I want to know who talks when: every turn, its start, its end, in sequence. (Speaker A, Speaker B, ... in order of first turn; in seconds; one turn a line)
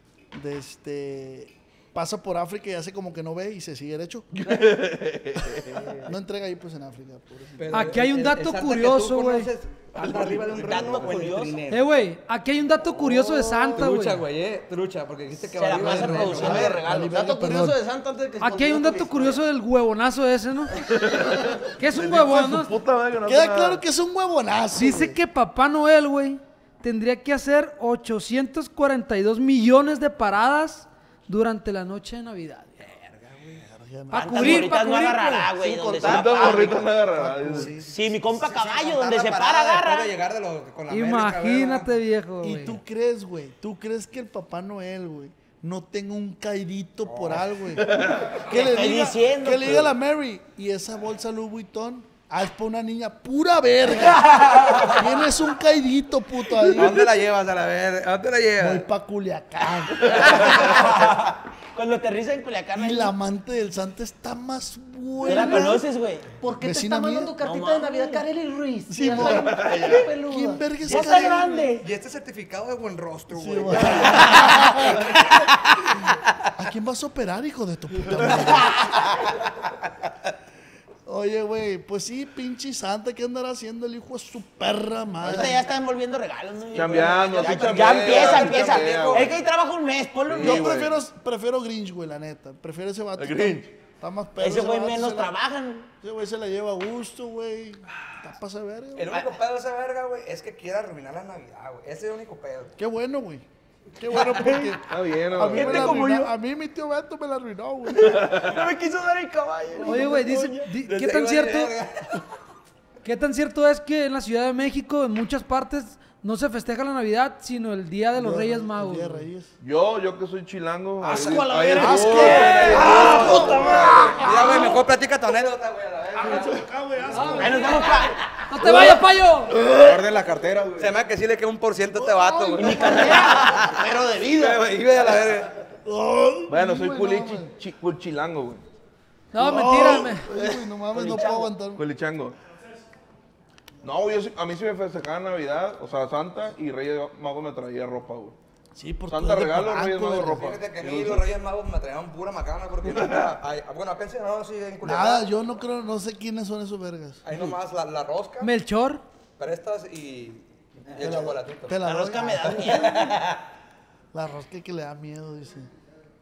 Speaker A: 0.3-4.8
Speaker B: 4.4-5.9
Speaker A: 6.0-7.8
Speaker C: 7.6-11.8
Speaker D: 7.7-9.5
Speaker E: 10.1-11.0
Speaker F: 10.6-11.6
Speaker D: 11.7-14.2
Speaker C: 13.7-16.8
Speaker F: 15.5-16.8
Speaker G: 15.7-19.4
Speaker A: 16.8-17.8
Speaker D: 18.4-20.8
Speaker B: 20.9-23.8
Speaker D: 21.7-22.7
Speaker A: 23.2-25.2
Speaker D: 24.8-32.8
Speaker C: 32.8-33.6
Speaker A: 33.6-34.7
Speaker D: 34.1-35.5
Speaker F: 34.1-36.9
Speaker G: 35.6-36.9
Speaker B: 36.0-37.7
Speaker A: 37.1-37.7
Speaker C: 37.5-41.9
Speaker F: 37.8-40.1
Speaker D: 40.9-42.8
Speaker A: 42.4-57.1
Speaker C: 47.1-47.5
Speaker F: 48.5-49.9
Speaker C: 56.7-58.9
Speaker A: 58.6-60.3
Speaker F: 60.1-63.1
Speaker A: 62.7-65.8
Speaker F: 65.2-66.3
Speaker G: 65.3-65.8
Speaker A: 66.4-67.3
Speaker G: 66.4-70.7
Speaker F: 67.4-68.2
Speaker A: 68.9-71.6
Speaker B: 69.6-69.9
Speaker F: 70.8-71.8
Speaker C: 70.9-75.1
Speaker A: 73.3-75.1
Speaker F: 74.3-74.5
Speaker A: 76.6-78.9
Speaker F: 78.6-79.1
Speaker A: 81.0-85.6
Speaker F: 85.2-90.8
Speaker B: 86.7-89.4
Speaker C: 87.7-89.4
Speaker B: 90.2-90.9
Speaker A: 90.4-95.3
Speaker B: 93.2-93.7
Speaker F: 94.4-95.9
Speaker A: 96.0-99.2
Speaker C: 98.9-102.7
Speaker A: 102.8-103.4
Speaker A: 104.0-108.4
Speaker B: 104.8-106.0
Speaker F: 105.5-106.2
Speaker F: 108.2-110.3
Speaker D: 109.8-111.7
Speaker C: 110.2-112.2
Speaker D: 113.0-119.2
Speaker A: 118.1-119.5
Speaker B: 119.6-124.1
Speaker G: 121.0-122.9
Speaker F: 121.1-122.5
Speaker A: 121.7-124.8
Speaker C: 122.0-127.4
Speaker A: 126.2-128.0
Speaker D: 127.1-127.9
Speaker F: 127.3-128.2
Speaker D: 128.5-129.5
Speaker A: 128.6-129.0
Speaker E: 129.6-131.0
Speaker C: 130.8-135.5
Speaker A: 131.9-133.2
Speaker F: 132.6-134.4
Speaker G: 132.7-134.5
Speaker A: 135.8-137.5
Speaker B: 136.5-138.6
Speaker D: 139.3-140.3
Speaker A: 139.3-141.8
Speaker F: 140.9-141.5
Speaker C: 140.9-141.2
Speaker B: 141.7-142.3
Speaker B: 143.8-148.3
Speaker A: 148.8-150.6
Speaker B: 149.1-151.3
Speaker C: 150.4-155.3
Speaker A: 154.8-157.5
Speaker C: 157.2-158.5
Speaker D: 158.4-159.0
Speaker C: 159.4-161.8
Speaker A: 160.9-162.9
Speaker F: 161.8-163.3
Speaker C: 162.6-163.2
Speaker A: 164.1-165.7